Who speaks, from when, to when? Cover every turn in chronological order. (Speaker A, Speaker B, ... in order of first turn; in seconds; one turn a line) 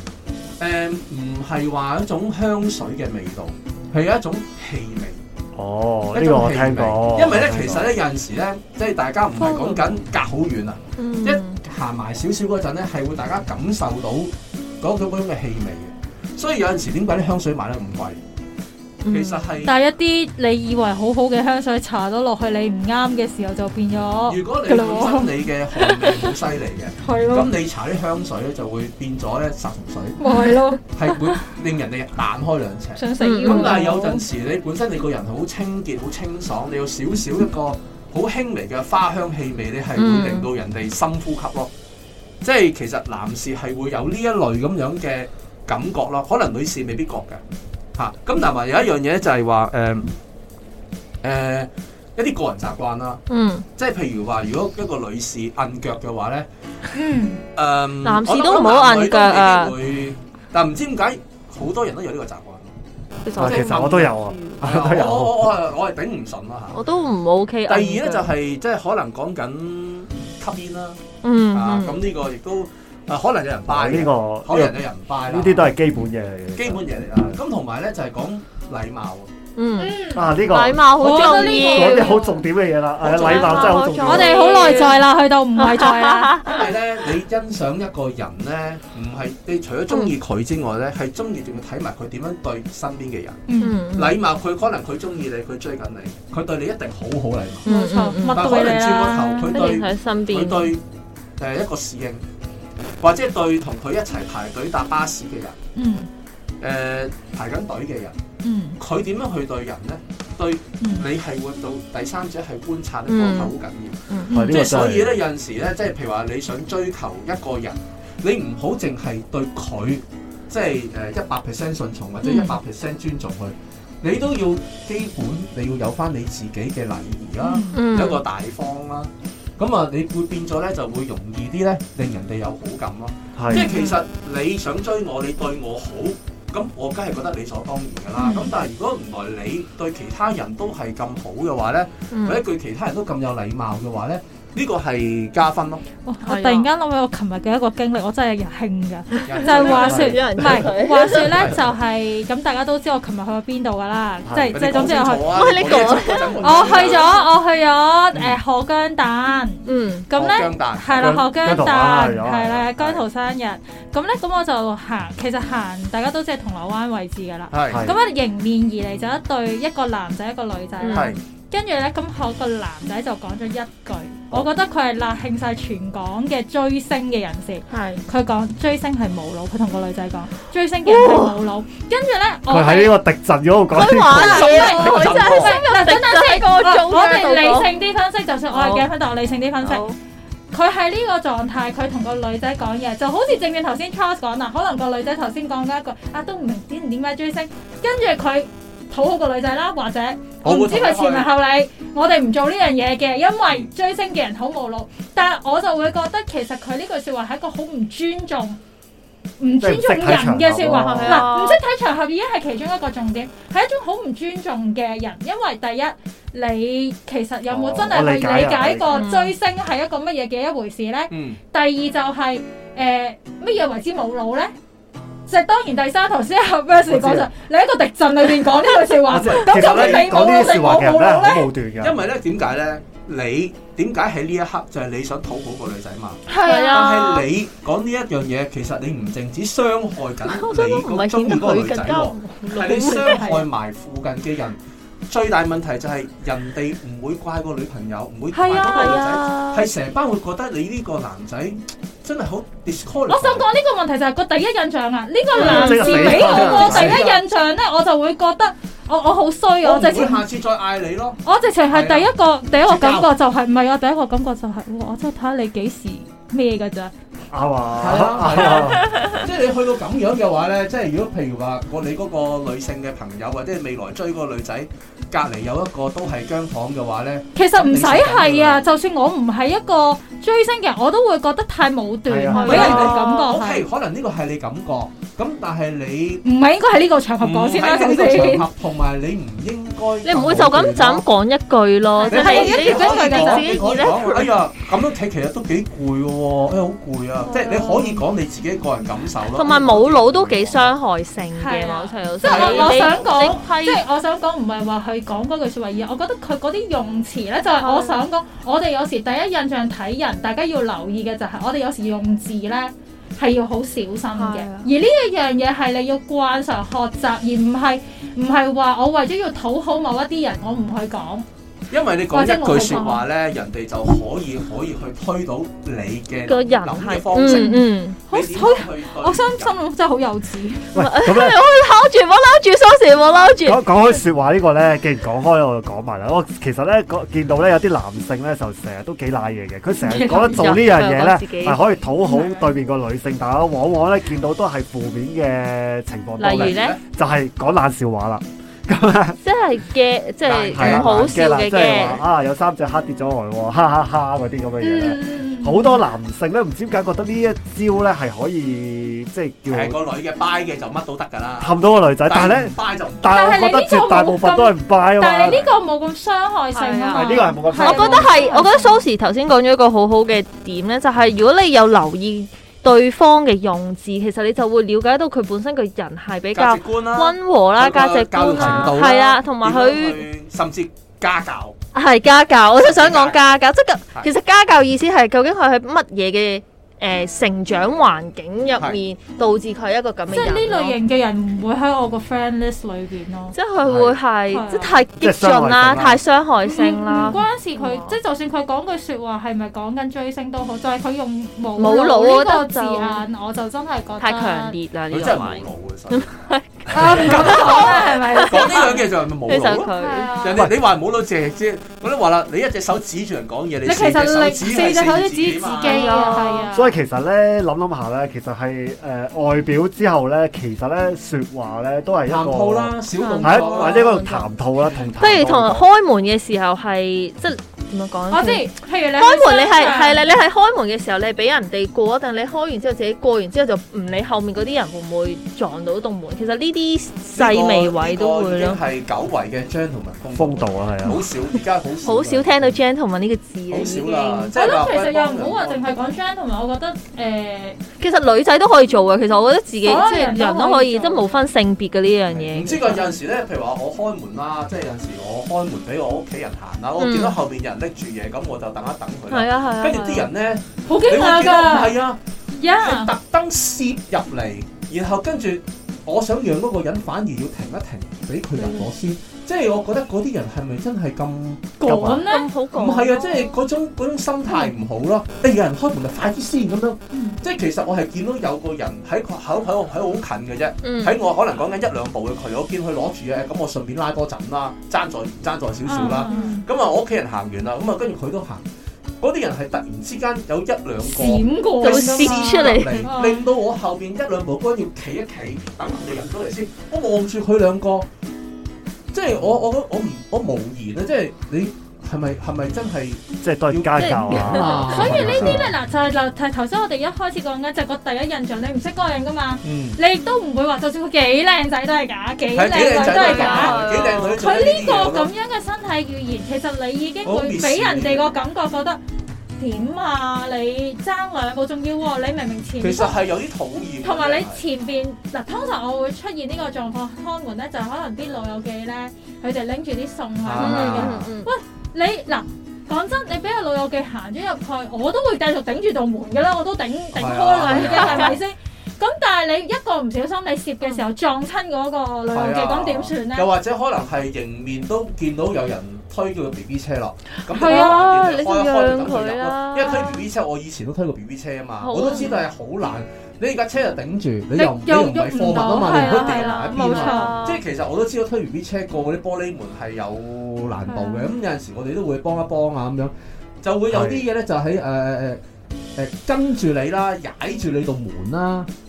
Speaker A: 0.6-5.2
Speaker B: 5.5-7.9
Speaker A: 6.1-18.2
Speaker C: 9.4-9.8
Speaker C: 11.0-11.6
Speaker C: 19.0-19.5
Speaker A: 19.1-19.7
Speaker D: 19.6-26.0
Speaker A: 24.3-41.7
Speaker D: 27.0-27.5
Speaker D: 30.2-31.4
Speaker D: 33.0-34.2
Speaker C: 33.2-33.9
Speaker C: 40.0-40.5
Speaker A: 42.4-47.4
Speaker A: 48.0-50.1
Speaker A: 51.2-53.2
Speaker C: 53.3-53.6
Speaker A: 53.8-56.5
Speaker D: 56.9-57.4
Speaker A: 57.5-62.7
Speaker C: 58.0-59.7
Speaker C: 63.2-64.6
Speaker A: 63.4-66.8
Speaker B: 63.4-65.5
Speaker C: 66.7-68.3
Speaker A: 67.7-71.0
Speaker C: 71.2-72.0
Speaker A: 71.5-75.8
Speaker B: 73.7-77.4
Speaker A: 76.5-79.3
Speaker C: 79.5-82.2
Speaker D: 79.8-80.3
Speaker B: 80.1-84.5
Speaker D: 80.9-82.4
Speaker A: 83.0-83.9
Speaker C: 83.1-85.0
Speaker D: 84.0-86.6
Speaker C: 85.6-86.7
Speaker A: 86.4-97.7
Speaker D: 93.5-93.8
Speaker C: 93.6-94.2
Speaker C: 97.6-98.6
Speaker D: 97.7-99.7
Speaker A: 98.3-100.8
Speaker C: 99.5-100.7
Speaker A: 101.4-102.2
Speaker A: 103.0-105.6
Speaker D: 105.8-106.1
Speaker A: 106.6-108.2
Speaker D: 108.4-108.8
Speaker A: 108.8-145.8
Speaker D: 110.8-111.1
Speaker C: 113.1-113.5
Speaker C: 114.1-114.4
Speaker B: 114.3-115.2
Speaker C: 122.2-122.5
Speaker D: 127.4-127.8
Speaker C: 127.7-128.2
Speaker B: 133.3-133.7
Speaker D: 133.5-134.0
Speaker D: 138.2-138.5
Speaker C: 142.1-142.4
Speaker D: 146.0-155.8
Speaker C: 146.2-146.7
Speaker C: 149.2-151.5
Speaker A: 149.2-150.6
Speaker A: 151.1-151.6
Speaker B: 154.2-154.6
Speaker A: 154.5-157.2
Speaker C: 155.2-157.2
Speaker D: 156.4-183.0
Speaker C: 159.6-160.1
Speaker A: 160.1-161.2
Speaker B: 161.0-162.7
Speaker A: 167.5-167.9
Speaker B: 167.7-167.9
Speaker C: 170.8-171.1
Speaker A: 170.9-171.2
Speaker C: 177.7-178.0
Speaker C: 180.8-181.4
Speaker B: 182.5-184.4
Speaker C: 183.7-187.7
Speaker A: 184.0-185.6
Speaker D: 184.2-189.8
Speaker C: 188.5-188.8
Speaker C: 189.6-189.9
Speaker D: 190.5-208.6
Speaker A: 200.4-201.3
Speaker D: 209.4-224.5
Speaker B: 209.6-211.3
Speaker C: 210.7-211.6
Speaker B: 217.5-219.0
Speaker C: 218.9-219.3
Speaker A: 221.1-221.4
Speaker D: 225.3-231.5
Speaker B: 226.9-227.3
Speaker B: 229.1-232.0
Speaker A: 229.6-230.1
Speaker A: 231.8-253.4
Speaker C: 236.3-237.2
Speaker D: 236.4-236.9
Speaker C: 240.2-243.4
Speaker D: 248.3-249.2
Speaker C: 248.4-249.7
Speaker D: 253.1-260.2
Speaker B: 255.3-257.1
Speaker A: 255.4-257.2
Speaker C: 255.4-256.4
Speaker A: 259.6-261.2
Speaker D: 261.2-266.9
Speaker A: 261.7-262.1
Speaker A: 262.6-263.1
Speaker B: 267.3-269.1
Speaker A: 267.8-278.6
Speaker C: 268.8-269.2
Speaker D: 277.3-283.6
Speaker B: 282.1-282.9
Speaker C: 282.3-283.3
Speaker A: 282.4-286.2
Speaker D: 286.2-288.5
Speaker A: 287.2-291.1
Speaker C: 290.0-294.4
Speaker D: 291.9-293.8
Speaker A: 292.1-300.7
Speaker C: 297.3-298.0
Speaker C: 299.3-303.8
Speaker D: 301.4-321.2
Speaker A: 302.2-303.4
Speaker C: 307.6-308.0
Speaker C: 314.1-314.7
Speaker A: 321.7-329.5
Speaker D: 322.1-323.0
Speaker C: 322.7-323.0
Speaker C: 326.2-328.0
Speaker D: 327.2-330.7
Speaker B: 330.7-331.4
Speaker C: 330.7-333.7
Speaker B: 333.4-349.2
Speaker D: 339.8-340.5
Speaker C: 340.0-341.6
Speaker D: 342.0-342.6
Speaker C: 346.2-346.8
Speaker A: 346.2-346.8
Speaker C: 349.2-352.0
Speaker A: 350.2-351.1
Speaker B: 350.5-359.8
Speaker D: 354.6-355.8
Speaker A: 359.5-363.1
Speaker B: 361.4-365.5
Speaker D: 363.0-368.8
Speaker C: 366.5-380.0
Speaker B: 366.9-368.1
Speaker A: 376.3-381.6
Speaker C: 381.7-390.8
Speaker A: 382.6-383.2
Speaker D: 390.1-393.3
Speaker C: 393.3-398.0
Speaker B: 393.6-394.0
Speaker D: 394.3-394.8
Speaker B: 395.0-396.0
Speaker D: 396.4-404.6
Speaker C: 401.6-403.0
Speaker C: 404.0-410.1
Speaker A: 404.9-406.1
Speaker D: 406.7-408.9
Speaker A: 406.7-416.2
Speaker D: 409.8-410.5
Speaker D: 413.6-416.7
Speaker C: 415.5-416.6
Speaker B: 416.5-425.6
Speaker A: 422.1-424.0
Speaker C: 423.0-424.3
Speaker C: 425.0-438.6
Speaker D: 428.1-430.0
Speaker A: 437.1-442.6
Speaker B: 440.1-441.1
Speaker C: 441.8-444.3
Speaker A: 443.5-445.8
Speaker D: 444.4-447.6
Speaker C: 447.8-452.9
Speaker D: 449.5-451.2
Speaker A: 452.1-462.0
Speaker C: 456.8-457.2
Speaker C: 459.1-460.1
Speaker D: 460.7-461.8
Speaker D: 462.3-462.9
Speaker A: 462.6-488.4
Speaker C: 468.4-468.6
Speaker D: 471.6-472.3
Speaker C: 472.0-473.4
Speaker D: 476.9-477.2
Speaker C: 480.6-481.0
Speaker D: 485.7-486.4
Speaker C: 485.7-486.3
Speaker A: 489.0-497.9
Speaker D: 490.8-493.2
Speaker C: 491.6-492.9
Speaker A: 498.9-505.5
Speaker B: 503.2-505.5
Speaker C: 503.8-505.1
Speaker D: 504.7-518.8
Speaker A: 509.4-509.8
Speaker A: 512.3-515.1
Speaker C: 512.5-514.2
Speaker A: 517.0-518.1
Speaker D: 519.4-523.0
Speaker A: 522.6-524.4
Speaker D: 523.8-543.3
Speaker A: 530.2-531.1
Speaker C: 530.4-531.3
Speaker A: 536.9-538.2
Speaker C: 537.4-538.2
Speaker A: 542.1-565.2
Speaker C: 547.3-550.0
Speaker D: 547.3-547.8
Speaker C: 551.6-552.2
Speaker D: 554.4-557.2
Speaker C: 556.1-557.4
Speaker D: 560.7-561.0
Speaker C: 560.7-561.0
Speaker B: 563.7-564.0
Speaker A: 565.8-568.5